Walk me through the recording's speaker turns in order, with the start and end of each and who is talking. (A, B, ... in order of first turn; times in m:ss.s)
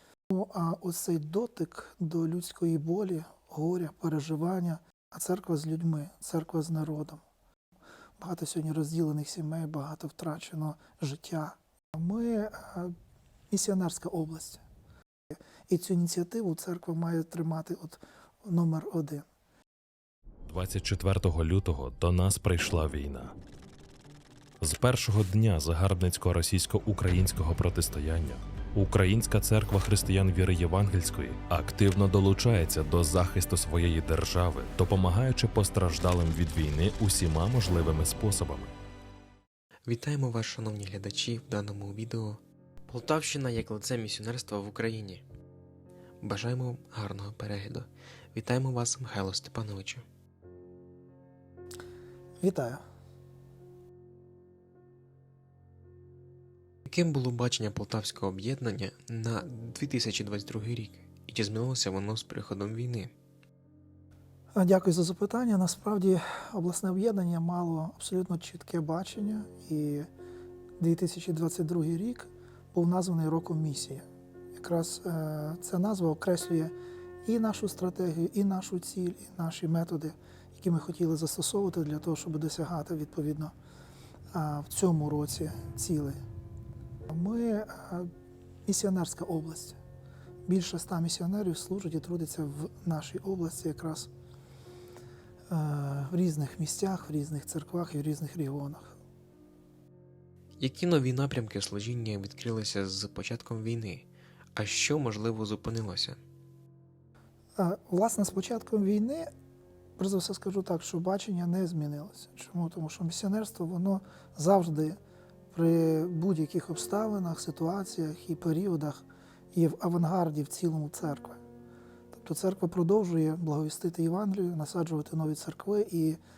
0:00.3-0:07.2 A
0:08.2-0:12.9 A
0:13.5-0:14.6 A
0:15.7-0:19.2 A
0:20.4-0:23.3 B
0:24.6-0:38.7 B
0:39.9-0:45.2 C
0:46.2-0:50.0 C
0:52.4-0:52.8 A
0:56.8-1:03.1 C
1:04.5-1:10.1 A
1:10.8-1:16.7 A
1:17.2-1:23.5 A
1:24.3-1:26.2 A
1:27.1-1:28.1 A
1:28.6-1:29.8 A
1:30.5-1:34.1 A
1:35.5-1:39.0 A
1:40.6-1:46.2 C
1:47.6-1:49.3 A
1:50.0-1:55.0 A
1:55.5-2:01.4 A
2:02.1-2:06.2 A